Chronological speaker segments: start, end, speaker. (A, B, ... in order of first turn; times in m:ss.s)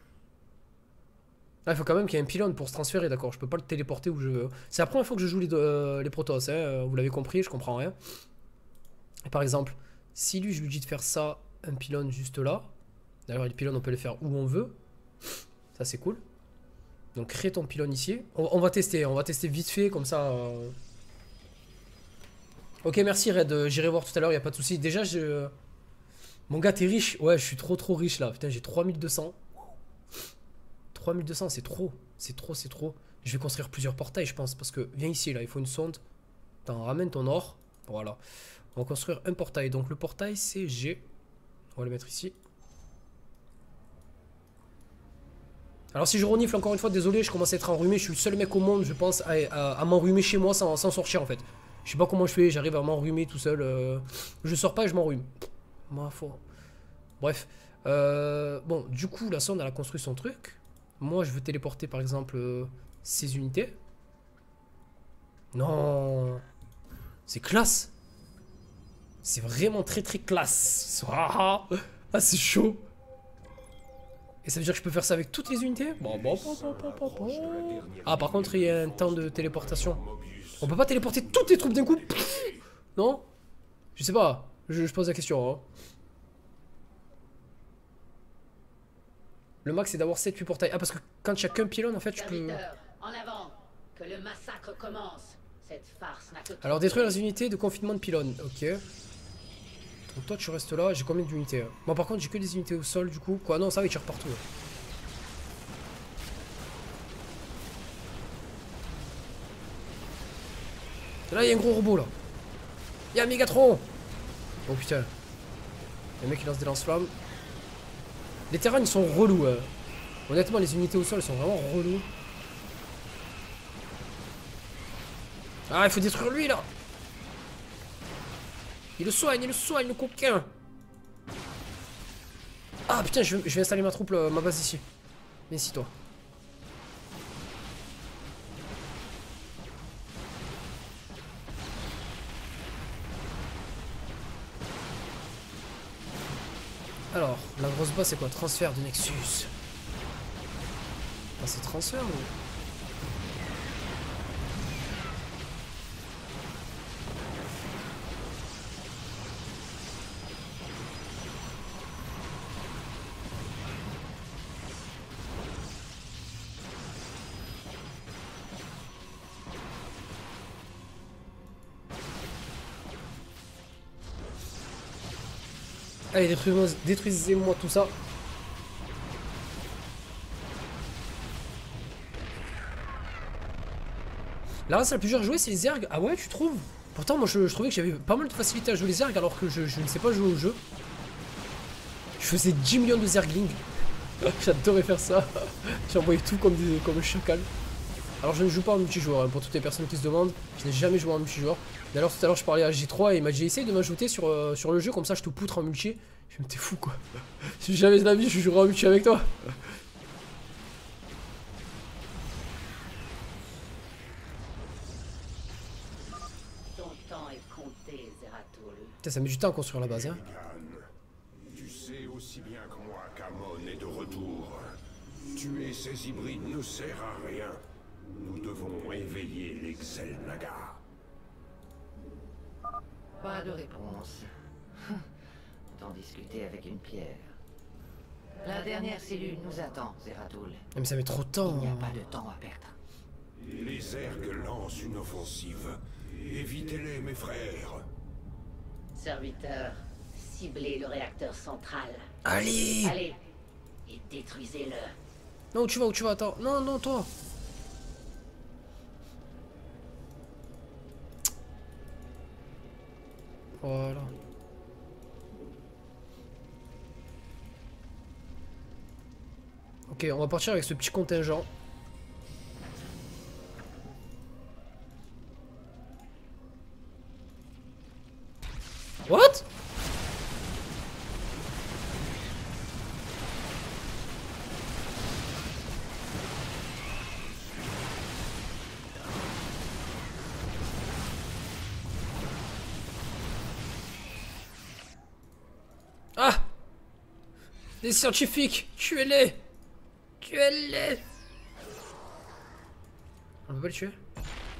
0:01.7-0:08.0 A
0:09.3-0:12.7 A
0:13.3-0:14.8 A
0:15.8-0:16.2 A
0:17.2-0:20.8 A
0:22.8-0:25.5 A
0:26.5-0:29.4 A
0:30.9-0:36.0 A
0:36.6-0:38.2 A
0:38.8-0:41.1 A
0:41.8-0:42.4 A
0:45.9-0:56.4 A
0:57.2-1:03.8 A
1:05.5-1:06.4 A
1:07.3-1:07.9 A
1:09.2-1:12.8 A
1:14.4-1:20.0 A
1:16.0-1:22.6 B
1:20.6-1:23.2 A
1:24.0-1:25.6 A
1:29.6-1:32.6 A
1:32.2-1:37.2 C
1:36.6-1:38.8 A
1:40.1-1:44.4 A
1:51.3-1:52.1 A
1:53.1-1:53.9 A
1:54.7-1:55.1 A
1:56.2-1:57.1 A
1:58.5-1:59.7 A
2:00.3-2:02.1 A
2:05.7-2:06.7 A
2:09.0-2:10.5 A
2:12.9-2:14.8 A
2:15.5-2:15.9 A
2:27.1-2:29.5 A
2:31.4-2:32.3 A
2:56.1-2:57.9 A
3:04.7-3:10.6 A
3:12.2-3:13.6 A
3:14.2-3:17.5 A
3:18.2-3:27.0 A
3:27.6-3:29.3 A
3:36.7-3:39.0 C
3:39.0-3:40.2 A
3:39.8-3:40.9 B
3:41.5-3:44.8 B
3:45.3-3:50.8 B
3:53.2-3:55.1 D
3:55.7-3:57.4 D
3:58.4-4:00.7 D
4:00.8-4:02.0 A
4:01.4-4:02.8 D
4:03.5-4:07.9 B
4:09.0-4:12.1 C
4:12.2-4:13.0 A
4:12.8-4:13.2 C
4:13.9-4:15.0 C
4:15.5-4:17.1 A
4:23.6-4:24.1 A
4:29.9-4:31.5 A
4:39.1-4:39.5 A
4:56.2-4:56.5 A
4:57.8-4:59.4 A
5:00.2-5:01.0 A
5:03.5-5:04.0 A